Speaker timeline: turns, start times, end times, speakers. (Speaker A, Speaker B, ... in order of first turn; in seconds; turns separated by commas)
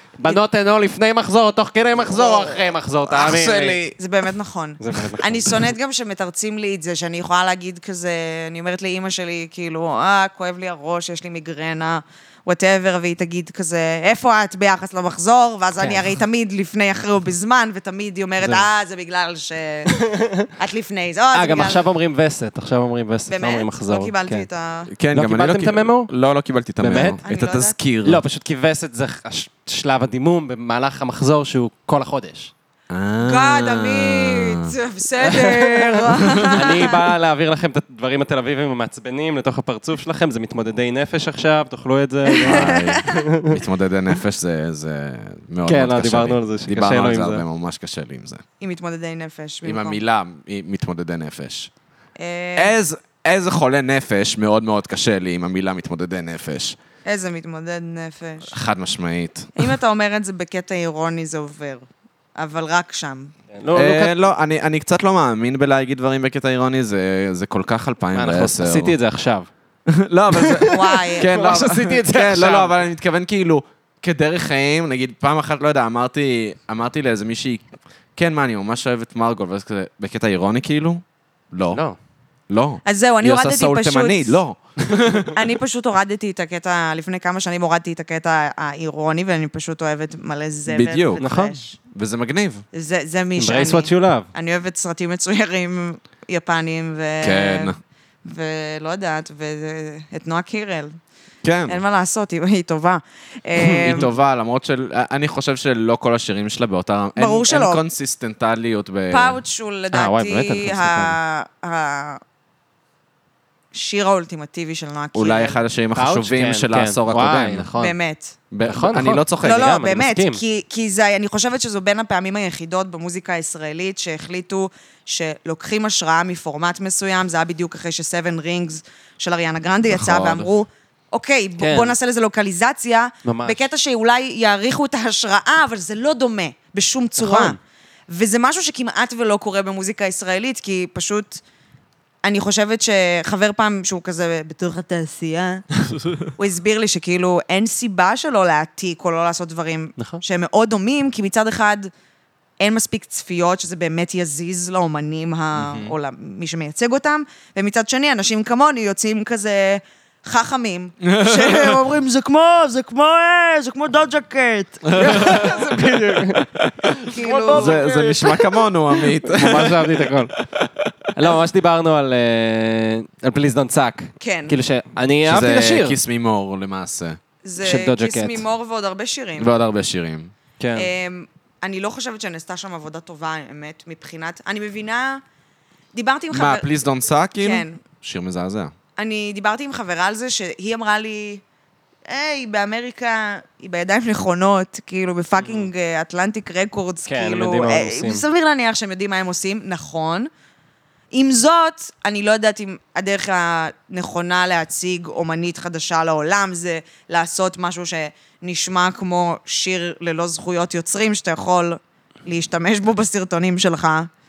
Speaker A: 0.2-3.8, Speaker B: 2.1-2.6, Speaker B: 3.1-4.0, Speaker C: 4.0-19.9, Speaker A: 4.8-5.5, Speaker A: 15.8-16.1, Speaker A: 18.4-18.6, Speaker A: 19.9-20.5, Speaker C: 20.6-21.8, Speaker A: 21.3-24.5, Speaker C: 23.3-24.9, Speaker B: 24.9-28.2, Speaker A: 25.1-26.1, Speaker A: 26.8-27.2, Speaker C: 27.2-27.8, Speaker A: 28.0-32.5, Speaker B: 32.9-34.7, Speaker C: 33.2-37.0, Speaker A: 35.4-43.6, Speaker B: 36.1-36.6, Speaker C: 42.3-43.2, Speaker B: 42.4-48.4, Speaker A: 45.6-47.4, Speaker C: 48.6-50.0, Speaker B: 49.6-51.7, Speaker C: 52.2-52.7, Speaker B: 52.5-56.8, Speaker C: 57.0-58.5, Speaker B: 58.5-59.6, Speaker C: 59.5-63.3, Speaker A: 63.5-64.2, Speaker B: 63.7-68.9, Speaker A: 68.1-69.5, Speaker B: 69.9-81.8, Speaker A: 70.3-72.8, Speaker C: 70.7-71.3, Speaker A: 81.7-82.0, Speaker B: 82.5-85.4, Speaker C: 82.8-84.4, Speaker C: 85.3-91.8, Speaker B: 90.7-91.2, Speaker A: 91.2-91.5, Speaker B: 91.9-92.7, Speaker C: 92.7-101.0, Speaker A: 93.4-94.3, Speaker B: 97.2-97.8, Speaker B: 101.4-101.8, Speaker C: 101.7-104.1, Speaker A: 103.6-104.0, Speaker B: 103.8-109.4, Speaker C: 107.2-107.8, Speaker C: 109.1-112.2, Speaker A: 109.9-111.2, Speaker C: 113.7-115.6, Speaker B: 115.1-117.7, Speaker A: 116.0-118.0, Speaker C: 117.8-118.3, Speaker B: 118.5-119.7, Speaker A: 118.7-120.4, Speaker C: 119.4-137.6, Speaker B: 129.9-130.5, Speaker A: 131.6-131.9, Speaker A: 133.2-133.6, Speaker A: 137.2-137.6, Speaker C: 138.1-141.4, Speaker C: 142.2-145.7, Speaker C: 146.2-151.9, Speaker C: 152.6-165.4, Speaker B: 155.6-155.9, Speaker B: 161.0-161.8, Speaker B: 164.8-165.7, Speaker A: 164.9-170.3, Speaker B: 166.6-166.9, Speaker C: 167.0-167.8, Speaker B: 167.5-170.9, Speaker A: 171.1-176.0, Speaker C: 174.2-174.6, Speaker B: 175.2-177.2, Speaker C: 177.4-179.5, Speaker A: 177.6-178.4, Speaker B: 179.4-180.3, Speaker A: 180.6-180.9, Speaker C: 180.7-185.2, Speaker C: 185.9-186.7, Speaker B: 186.3-188.7, Speaker C: 187.4-187.8, Speaker C: 188.9-191.4, Speaker C: 192.1-200.3, Speaker A: 195.4-195.7, Speaker A: 197.1-198.2, Speaker C: 201.1-214.1